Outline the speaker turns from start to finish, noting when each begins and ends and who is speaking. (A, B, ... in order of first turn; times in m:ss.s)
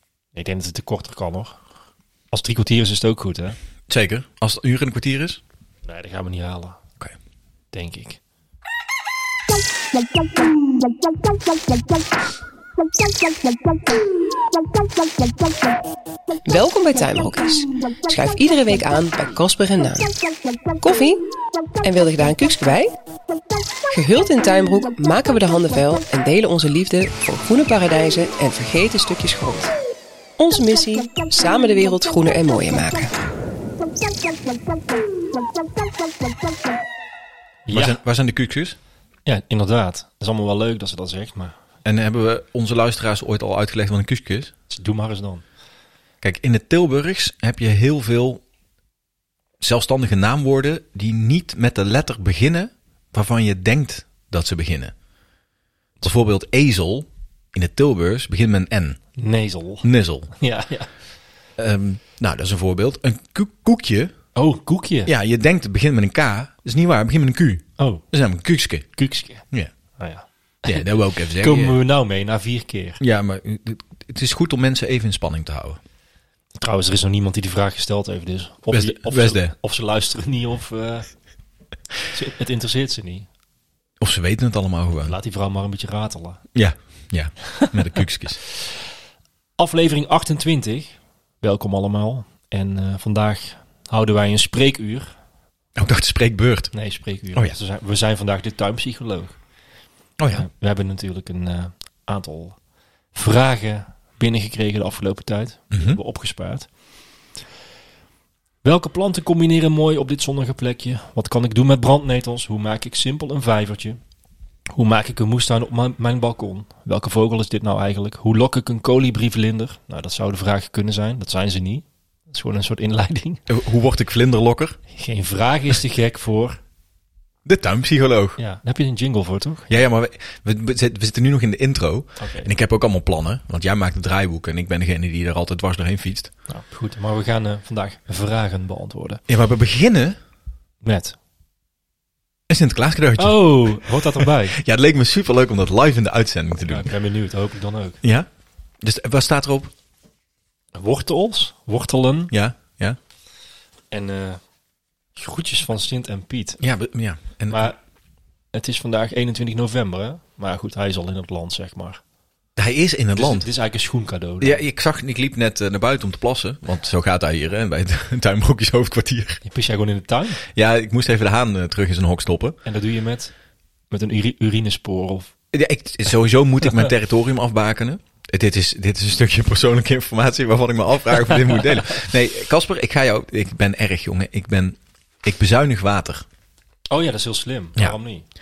0:00.3-0:01.6 A
0:02.3-0:03.6 A
0:03.9-0:05.4 B
0:05.8-0:06.8 A
0:07.7-0:08.2 A
0:16.5-0:20.1 C
0:20.8-0:21.2 C
0:21.8-0:22.9 C
0:23.9-0:29.7 C
0:30.4-0:33.2 C
0:37.6-0:38.0 A
0:37.7-0:38.8 B
0:39.2-0:41.6 A
0:41.8-0:44.5 B
0:44.7-0:45.4 A
0:46.2-0:48.4 B
0:49.6-0:54.9 B
0:56.0-0:59.0 B
0:59.2-1:00.9 A
0:59.8-1:00.3 B
1:01.6-1:04.1 B
1:04.3-1:05.1 A
1:05.0-1:09.7 B
1:07.8-1:08.0 A
1:08.9-1:09.4 A
1:10.0-1:13.0 A
1:10.6-1:11.8 B
1:13.0-1:15.8 B
1:16.6-1:21.1 A
1:18.7-1:19.5 B
1:22.1-1:23.3 A
1:24.0-1:25.2 B
1:25.0-1:26.4 A
1:26.5-1:28.4 B
1:29.6-1:35.1 A
1:35.8-1:36.8 B
1:36.7-1:39.4 A
1:40.2-1:40.4 B
1:40.3-1:42.6 A
1:43.1-1:46.7 A
1:45.7-1:46.0 B
1:48.6-1:54.0 A
1:54.7-2:03.4 A
2:03.5-2:04.8 B
2:04.9-2:06.6 A
2:07.4-2:08.4 B
2:08.4-2:09.7 A
2:09.7-2:16.3 B
2:12.2-2:12.5 A
2:16.5-2:19.2 A
2:19.3-2:20.2 B
2:20.8-2:21.2 A
2:22.5-2:26.9 B
2:23.2-2:24.6 A
2:26.6-2:28.0 A
2:28.0-2:28.3 B
2:28.8-2:29.7 B
2:30.7-2:32.3 A
2:32.3-2:33.0 B
2:33.9-2:34.4 A
2:35.2-2:36.6 A
2:36.6-2:37.7 B
2:37.5-2:37.8 A
2:38.5-2:42.0 A
2:42.6-2:43.5 B
2:43.2-2:44.6 A
2:44.4-2:49.4 B
2:49.4-2:50.4 A
2:50.4-2:52.6 B
2:52.6-2:53.3 A
2:53.9-2:55.3 A
2:55.5-3:06.2 B
3:06.9-3:08.2 A